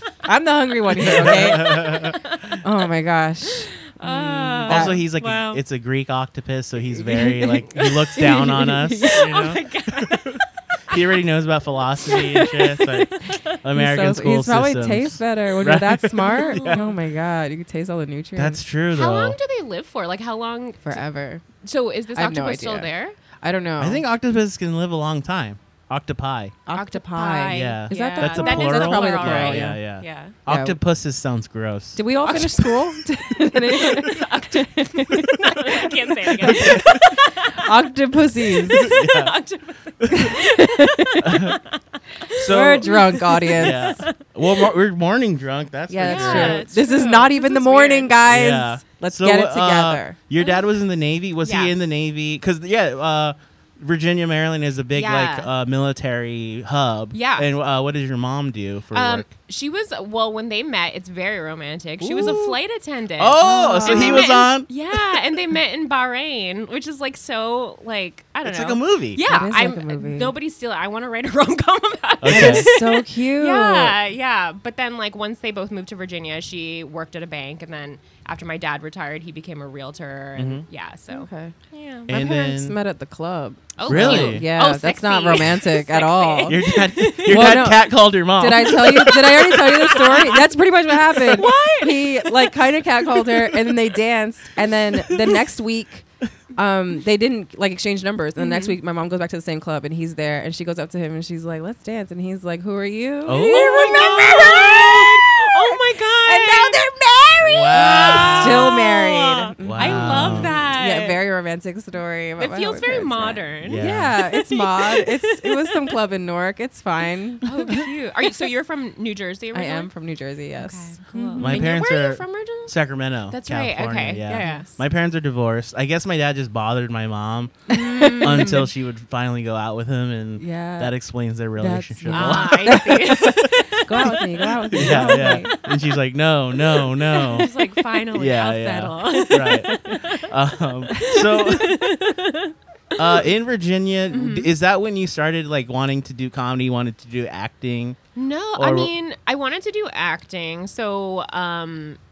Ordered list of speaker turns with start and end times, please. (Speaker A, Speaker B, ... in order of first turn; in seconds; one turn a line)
Speaker A: 0.2-2.1
Speaker B: 0.9-2.6
Speaker C: 1.0-2.2
Speaker A: 2.6-5.0
Speaker B: 3.5-5.6
Speaker C: 4.7-16.8
Speaker A: 6.9-9.3
Speaker B: 7.7-11.2
Speaker B: 12.0-13.6
Speaker A: 13.7-18.6
Speaker B: 16.3-17.0
Speaker C: 18.4-19.4
Speaker B: 18.9-21.0
Speaker A: 20.8-21.4
Speaker B: 21.6-23.1
Speaker A: 22.1-24.0
Speaker C: 23.8-26.6
Speaker A: 26.7-29.8
Speaker B: 26.7-30.4
Speaker C: 27.5-32.0
Speaker A: 30.4-30.8
Speaker A: 31.9-38.9
Speaker B: 32.2-37.9
Speaker C: 36.4-37.1
Speaker B: 38.5-44.7
Speaker C: 38.7-39.4
Speaker C: 40.0-40.3
Speaker A: 40.1-41.4
Speaker C: 41.2-41.6
Speaker A: 42.3-44.0
Speaker C: 42.4-43.0
Speaker C: 43.5-46.7
Speaker A: 45.9-50.2
Speaker B: 46.0-48.1
Speaker C: 48.3-59.3
Speaker B: 50.4-50.7
Speaker B: 51.4-51.8
Speaker B: 54.9-55.5
Speaker B: 57.1-57.5
Speaker B: 58.9-82.1
Speaker C: 62.0-62.6
Speaker C: 63.2-64.7
Speaker A: 63.4-64.3
Speaker C: 68.4-69.2
Speaker A: 69.2-70.3
Speaker C: 72.2-72.7
Speaker A: 72.2-74.0
Speaker C: 80.4-80.6
Speaker A: 81.1-81.5
Speaker C: 82.1-82.8
Speaker A: 82.1-117.8
Speaker B: 83.8-87.7
Speaker C: 83.8-84.5
Speaker C: 86.4-90.2
Speaker B: 89.0-90.5
Speaker B: 91.1-93.9
Speaker B: 98.4-98.8
Speaker C: 103.2-104.5
Speaker B: 103.4-106.8
Speaker C: 107.4-108.7
Speaker B: 107.7-111.2
Speaker C: 109.6-110.6
Speaker B: 112.4-116.0
Speaker C: 113.6-114.1
Speaker B: 117.4-119.9
Speaker A: 119.5-121.7
Speaker B: 120.6-122.7
Speaker C: 121.4-134.1
Speaker B: 123.3-124.8
Speaker A: 124.3-124.7
Speaker B: 127.7-128.7
Speaker A: 127.7-128.6
Speaker A: 130.4-130.9
Speaker A: 131.6-135.6
Speaker B: 132.1-135.7
Speaker C: 134.7-137.5
Speaker B: 136.8-140.3
Speaker A: 137.2-137.5
Speaker C: 138.1-141.8
Speaker A: 139.4-139.9
Speaker B: 140.9-142.5
Speaker A: 141.0-141.7
Speaker C: 143.0-148.0
Speaker B: 144.1-144.5
Speaker B: 148.2-152.0
Speaker C: 148.5-148.9